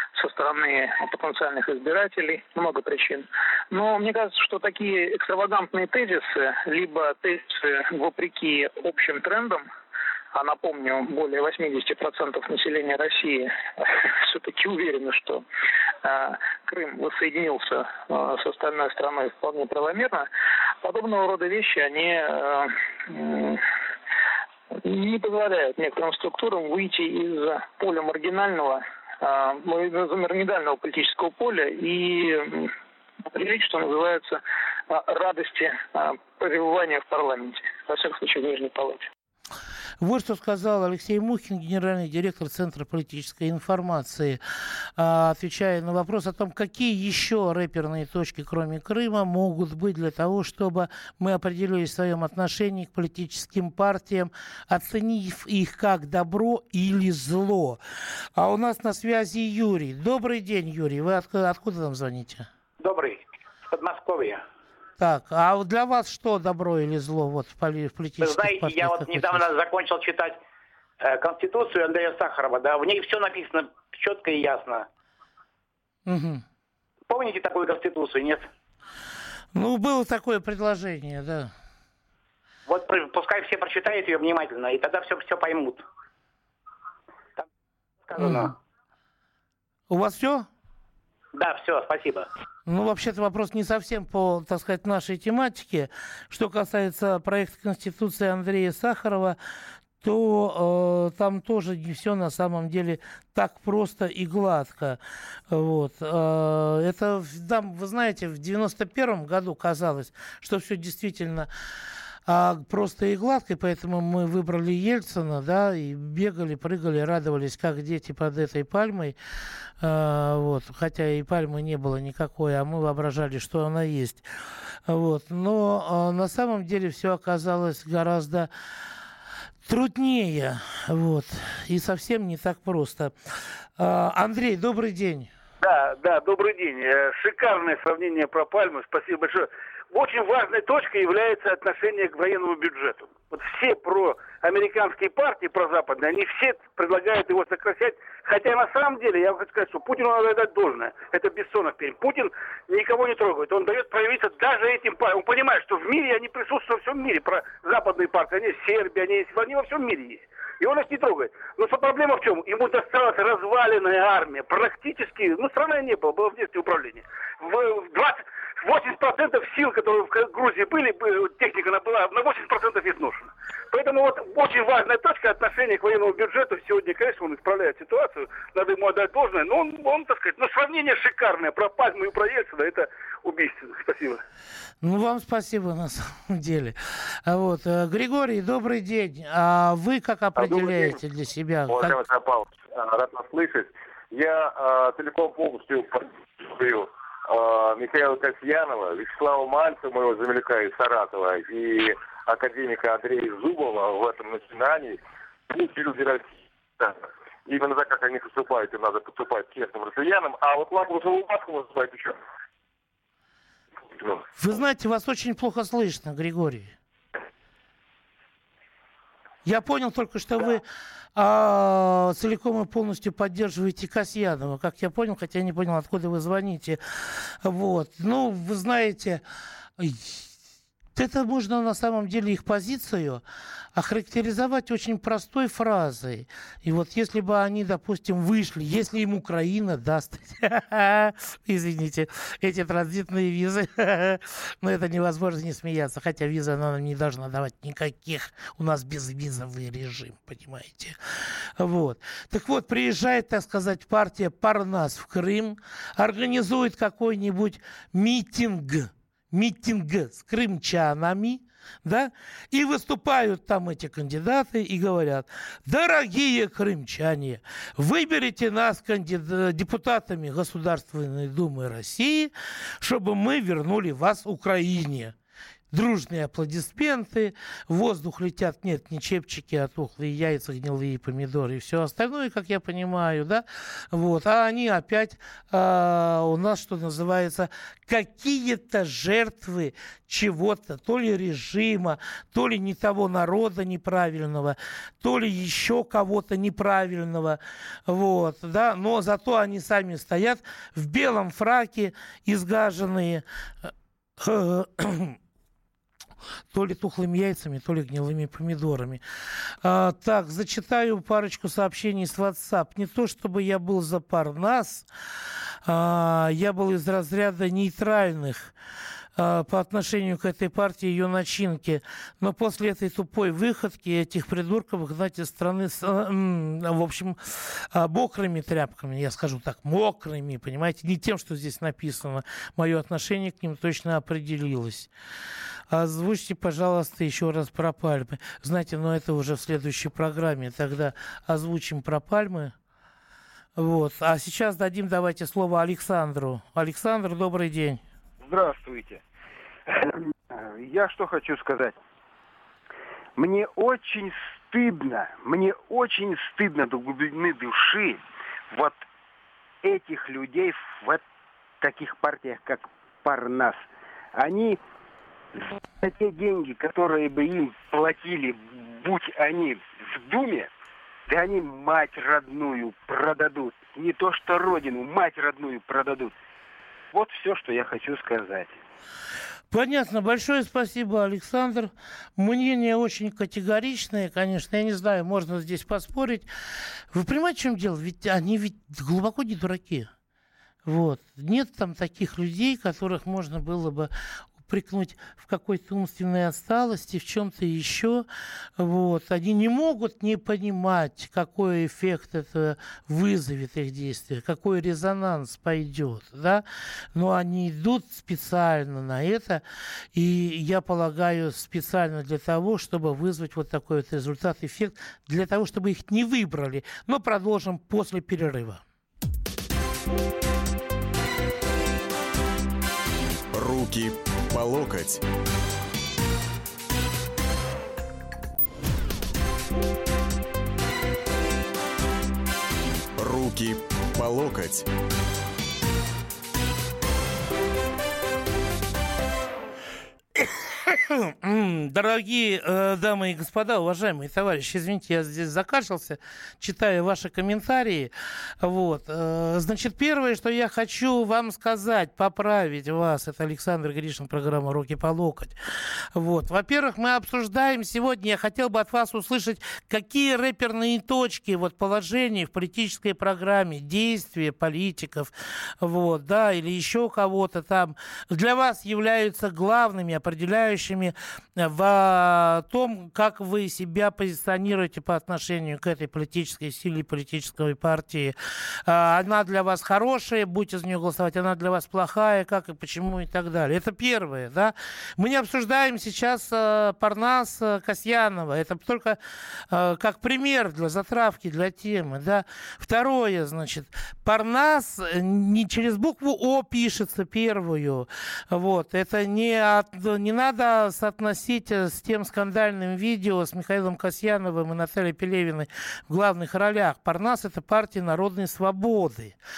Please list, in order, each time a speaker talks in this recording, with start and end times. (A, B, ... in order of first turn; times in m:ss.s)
0:00.2-0:09.7 A
0:10.3-0:15.4 A
0:16.0-0:20.3 A
0:20.8-0:23.6 A
0:24.7-0:32.7 A
0:33.3-0:39.1 A
0:40.0-0:44.4 B
0:45.0-0:57.8 B
0:58.4-1:02.5 B
1:02.8-1:04.4 C
1:05.0-1:09.5 B
1:08.2-1:10.4 C
1:11.0-1:14.9 C
1:16.1-1:16.4 B
1:17.1-1:18.5 C
1:19.5-1:21.5 B
1:22.7-1:25.8 C
1:28.1-1:28.6 C
1:29.9-1:30.5 B
1:31.3-1:32.3 C
1:32.7-1:39.4 B
1:40.0-1:45.0 B
1:45.5-1:51.5 B
1:52.3-1:59.2 B
1:59.8-2:04.3 B
2:04.9-2:08.5 B
2:09.6-2:13.1 B
2:13.8-2:15.3 B
2:15.6-3:04.2 D
3:04.8-3:12.0 B
3:10.4-3:11.0 E
3:11.7-3:32.2 E
3:33.9-3:34.3 E
3:34.4-3:36.7 B
3:39.4-3:40.6 B
3:41.2-3:49.2 B
3:49.8-3:50.3 B
3:51.0-3:53.2 B
3:53.8-4:35.2 B
4:35.7-5:05.2 B
5:06.5-5:09.0 B
5:09.6-5:14.9 B
5:15.6-5:18.5 B
5:19.2-5:34.9 B
5:35.7-5:42.6 B
5:43.6-5:47.8 B
5:48.2-5:49.0 F
5:49.8-5:51.8 F
5:53.2-5:58.8 F
5:59.6-6:01.0 F
6:01.6-6:03.6 F
6:04.2-6:04.6 F
6:05.4-6:10.5 F
6:11.1-6:16.1 F
6:16.9-6:18.6 F
6:19.5-6:26.3 B
6:26.9-6:29.9 B
6:30.6-6:38.1 B
6:38.6-6:49.4 B
6:49.9-6:58.6 B
7:03.3-7:05.0 G
7:13.0-7:14.7 G
7:20.2-7:35.4 B
7:35.9-8:09.0 B
8:09.5-8:29.2 B